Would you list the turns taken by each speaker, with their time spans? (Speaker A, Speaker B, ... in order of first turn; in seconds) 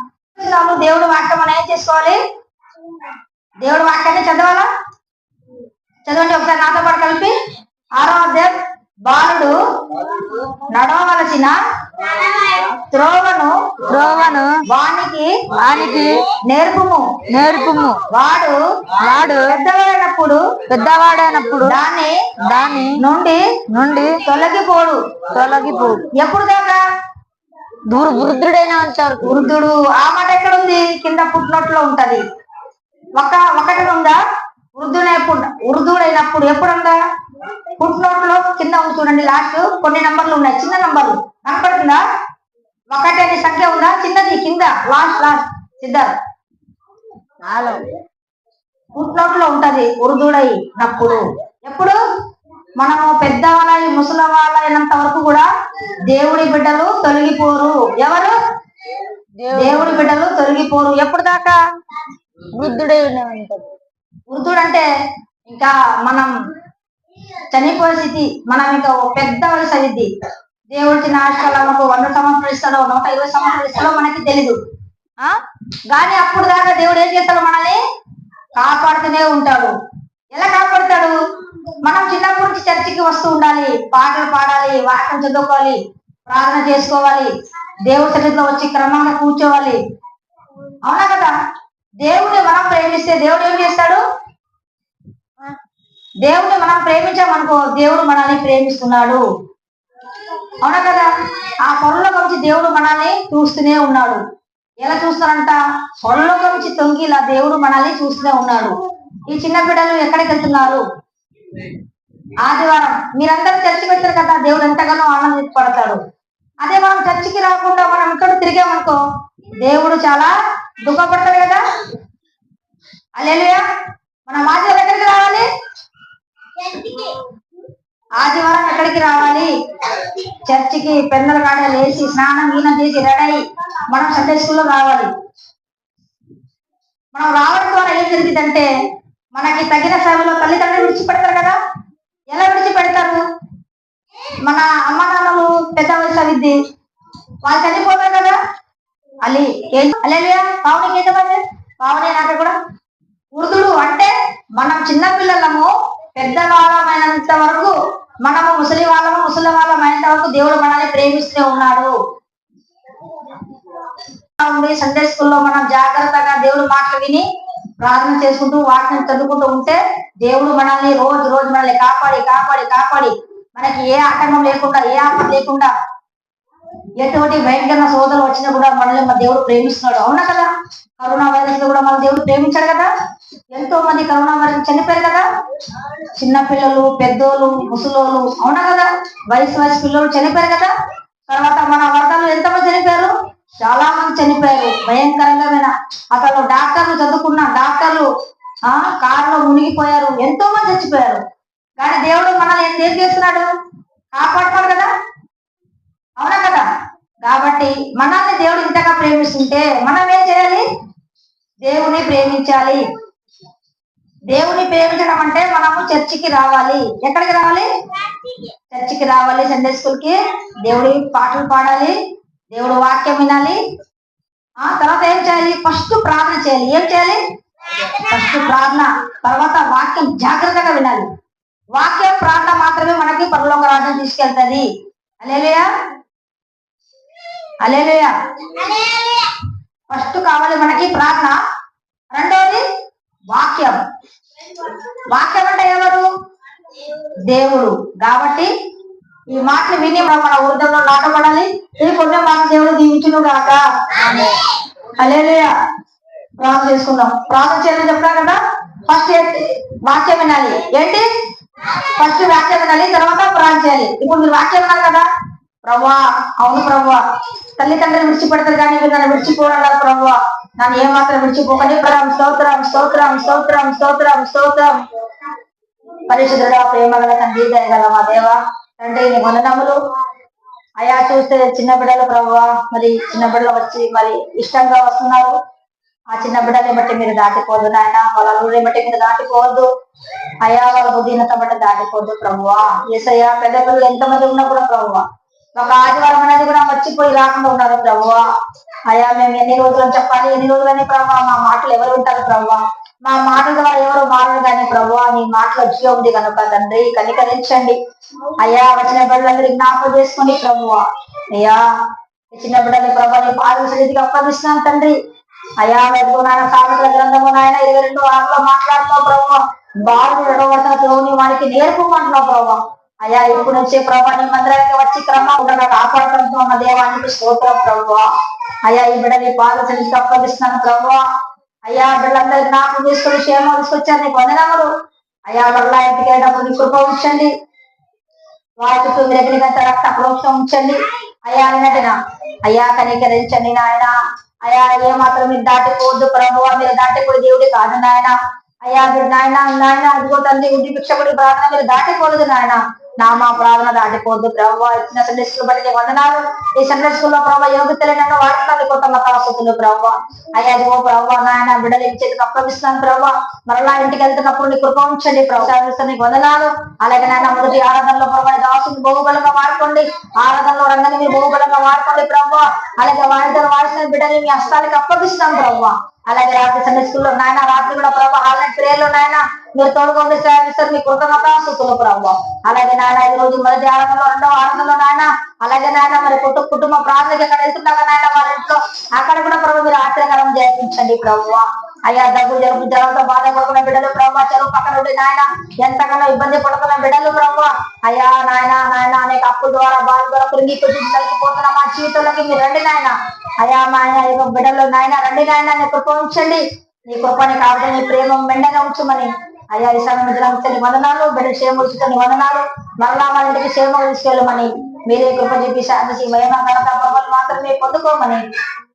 Speaker A: 0.3-2.2, 3.6-4.7, 6.0-7.3, 8.0-8.5, 9.1-11.6, 12.8-13.9, 14.7-15.4, 16.4-17.2, 18.1-18.6, 19.1-20.6, 21.6-22.3, 23.0-23.6, 24.1-25.0, 26.1-26.8, 29.2-32.2, 33.1-34.2, 34.7-37.0, 37.8-42.0, 42.9-46.1, 49.0-52.0, 52.8-55.5, 56.1-58.4, 59.5-61.5, 64.3-64.8, 65.5-66.3, 67.5-70.1, 70.7-74.6, 75.9-77.8, 78.5-79.7, 80.3-81.1, 81.8-87.3, 87.8-89.8, 90.8-91.3, 92.0-94.0, 96.2-99.2, 100.6-104.2, 104.8-110.8, 112.4-116.0, 116.6-119.0, 119.6-121.6, 123.2-123.6, 124.3-125.5, 126.6-127.2, 128.2-135.1, 137.1-138.7, 139.3-141.6, 142.3-143.2, 144.3-146.6, 147.4-148.4, 149.2-152.5, 153.3-161.9, 164.4-167.2, 167.8-175.7, 177.0-180.5, 181.0-182.9, 183.5-185.2, 186.0-190.7, 191.3-198.1, 198.6-201.2, 201.8-203.5, 204.1-204.9, 206.2-206.6, 207.2-210.6, 211.6-212.8, 214.3-217.7, 218.3-221.9, 222.5-223.6, 224.6-231.1, 231.7-234.7, 235.2-235.7, 237.6-239.4, 239.9-241.4, 242.1-242.6, 243.3-243.8, 244.5-246.1, 247.3-248.5, 249.3-255.5, 256.4-261.1, 261.6-265.1, 265.6-267.0, 267.6-274.7, 276.1-279.8, 280.8-285.3, 286.1-289.7, 290.4-295.0, 295.5-298.2, 298.9-307.8, 308.4-311.6, 312.3-314.9, 315.6-328.0, 328.6-331.0, 331.6-334.7, 335.3-337.3, 338.6-343.9, 344.4-348.1, 348.6-418.2
Speaker B: 12.1-12.7, 13.8-14.6, 15.5-16.3, 17.3-18.1, 18.9-19.6, 20.7-21.8, 22.4-23.0, 23.7-24.2, 25.3-26.1, 27.9-29.5, 47.4-47.9, 59.4-60.2, 62.5-63.7